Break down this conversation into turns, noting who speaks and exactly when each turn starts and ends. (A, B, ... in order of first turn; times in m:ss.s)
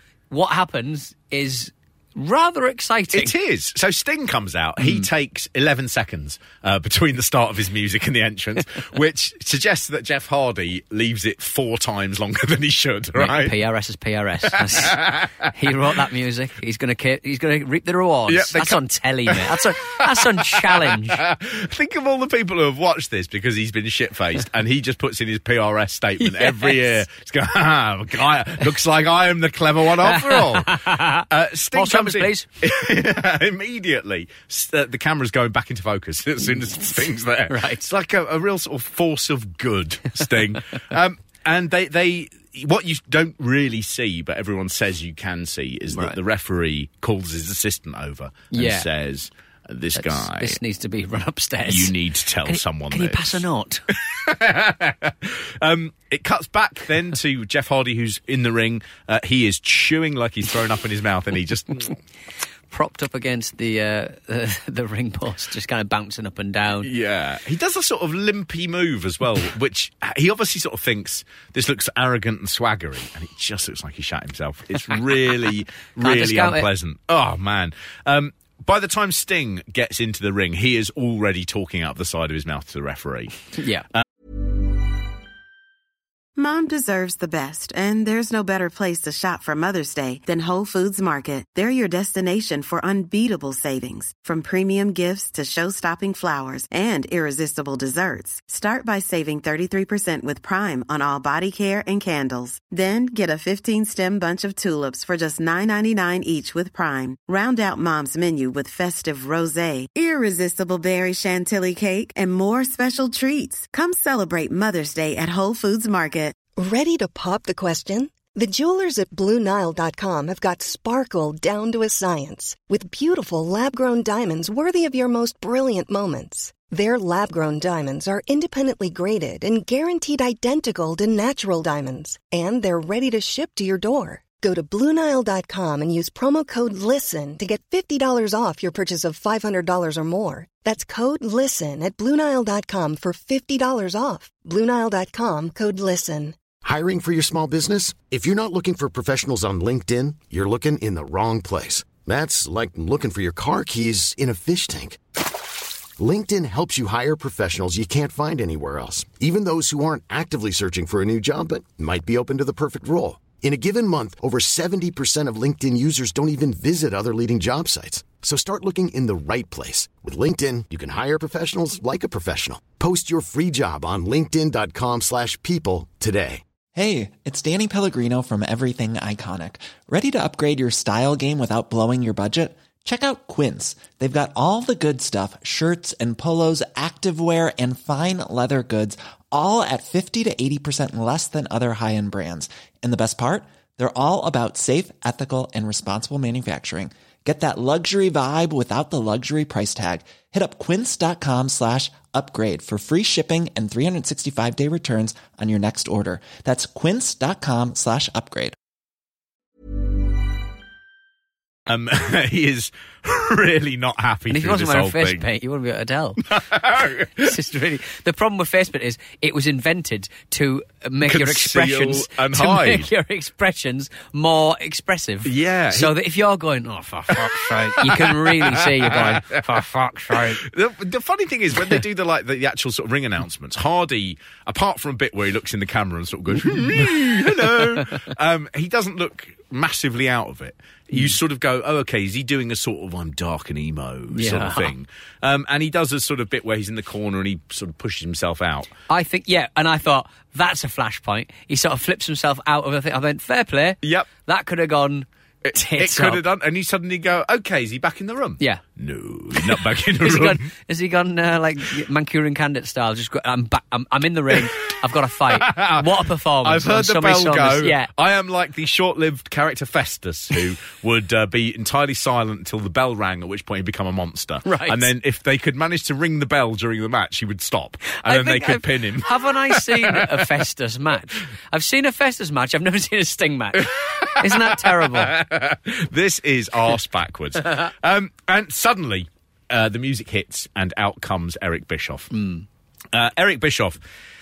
0:00.3-0:03.3 A
0:03.1-0:13.5 B
0:04.8-0:05.1 A
0:13.2-0:21.2 A
0:14.6-0:15.5 B
0:18.3-0:50.6 B
0:26.2-0:27.0 A
0:30.0-0:32.5 A
0:37.5-0:37.9 A
0:45.9-0:46.2 A
0:48.5-0:48.9 A
0:50.0-0:53.8 A
0:51.7-1:02.0 B
1:02.7-1:06.9 A
1:06.8-1:24.0 B
1:16.0-1:16.7 A
1:23.6-1:23.9 A
1:26.4-1:56.4 C
1:56.6-2:26.4 D
2:26.6-2:35.0 E
2:36.0-2:56.4 E
2:56.7-3:28.6 F
3:31.7-3:35.2 B
3:34.3-3:36.4 A
3:36.3-3:37.3 B
3:37.2-3:50.5 A
3:41.0-3:42.9 B
3:45.2-3:45.9 B
3:47.1-3:49.2 B
3:50.1-4:08.7 B
3:56.4-3:57.9 A
4:00.9-4:01.2 A
4:04.1-4:04.8 A
4:08.9-4:16.2 A
4:13.8-4:14.1 B
4:15.4-4:20.4 B
4:19.3-4:27.9 A
4:25.4-4:25.9 B
4:26.4-4:40.1 B
4:34.4-4:34.9 A
4:38.0-4:45.1 A
4:43.6-4:52.1 B
4:52.1-4:52.4 A
4:52.9-4:53.8 B